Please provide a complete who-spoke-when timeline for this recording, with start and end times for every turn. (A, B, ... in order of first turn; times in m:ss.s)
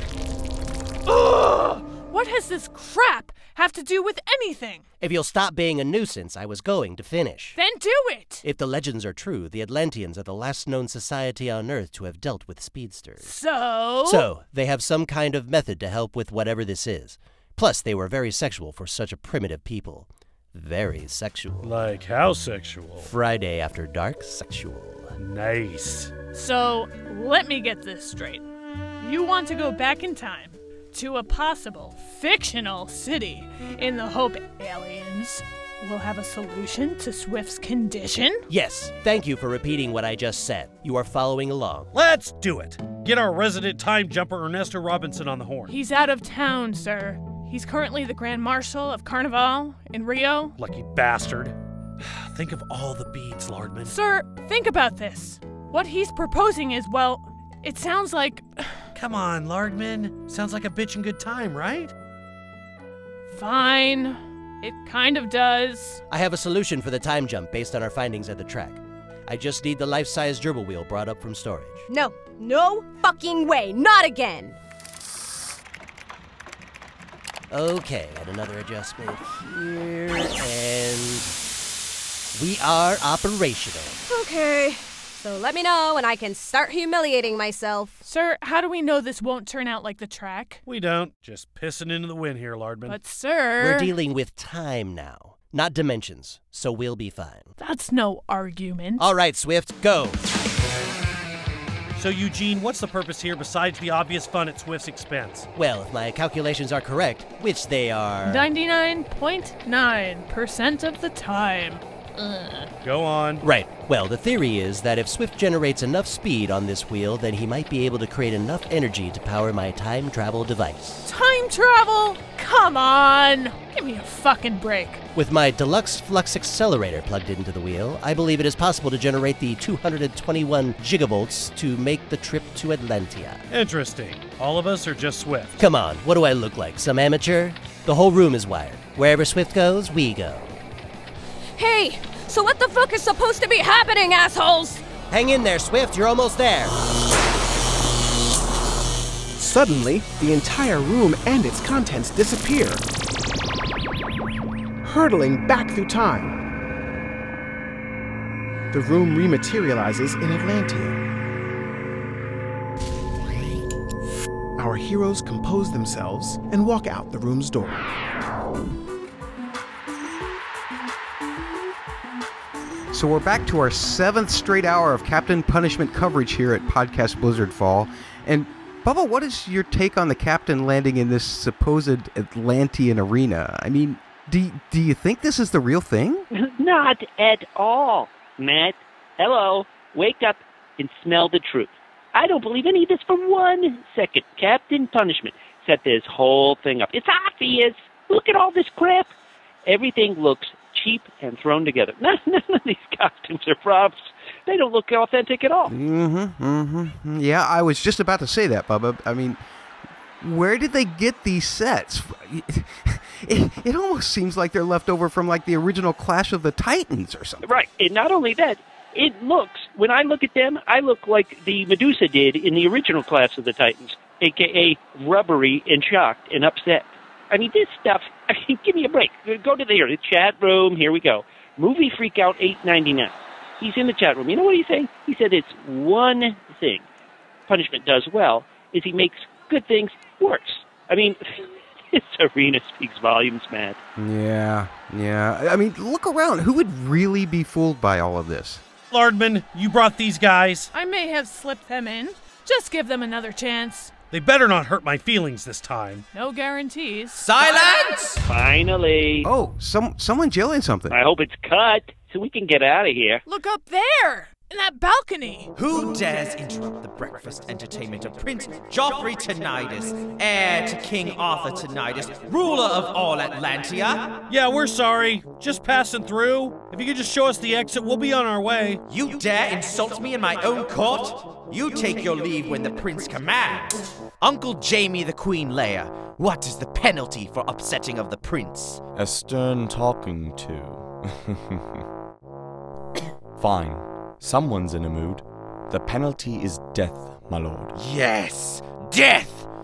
0:01.0-0:04.8 A
0:05.0-0:07.6 B
0:07.6-0:08.4 A
0:08.4-0:13.3 B
0:13.2-0:14.3 A
0:14.0-0:21.8 B
0:21.6-0:23.1 C
0:23.0-0:25.2 B
0:25.2-0:26.2 C
0:26.3-0:28.4 A
0:29.0-0:38.4 A
0:38.5-0:41.9 B
0:41.9-0:45.7 C
0:45.7-0:50.5 A
0:50.6-0:54.0 C
0:53.8-0:58.9 A
0:58.9-1:01.9 C
1:03.3-1:06.0 A
1:06.1-1:11.8 B
1:11.9-1:14.6 D
1:17.5-1:21.3 B
1:22.3-1:24.0 B
1:24.1-1:28.0 D
1:28.0-1:30.6 A
1:30.6-1:33.0 C
1:32.8-1:33.9 A
1:33.6-1:37.5 B
1:37.6-1:39.1 A
1:39.0-1:40.2 B
1:42.0-1:45.5 C
1:45.5-1:48.5 B
1:48.2-1:52.7 A
1:52.8-1:53.4 C
1:53.4-2:01.0 B
2:01.0-2:05.0 A
2:05.1-2:13.4 B
2:13.5-2:15.6 C
2:15.6-2:20.6 B
2:21.6-2:24.8 D
2:25.1-2:26.8 B
2:29.4-2:32.8 E
2:34.8-2:36.4 E
2:38.7-2:41.0 E
2:44.6-2:47.9 E
2:52.9-3:06.2 F
3:06.3-3:19.1 G
3:19.6-3:25.7 G
3:25.7-3:29.4 F
3:30.2-3:37.5 F
3:37.4-3:56.8 G
3:57.5-4:03.8 G
4:04.0-4:08.6 F
4:08.9-4:10.7 C
4:10.7-4:13.9 A
4:14.1-4:16.0 C
4:16.1-4:17.3 A
4:17.1-4:18.2 H
4:18.2-4:19.3 G
4:19.2-4:21.0 F
4:20.9-4:23.2 G
4:23.2-4:25.5 A
4:25.5-4:34.2 H
4:34.3-4:38.8 C
4:38.9-4:48.8 H
4:48.9-4:51.8 I
4:53.4-4:57.7 I
4:57.7-4:59.5 H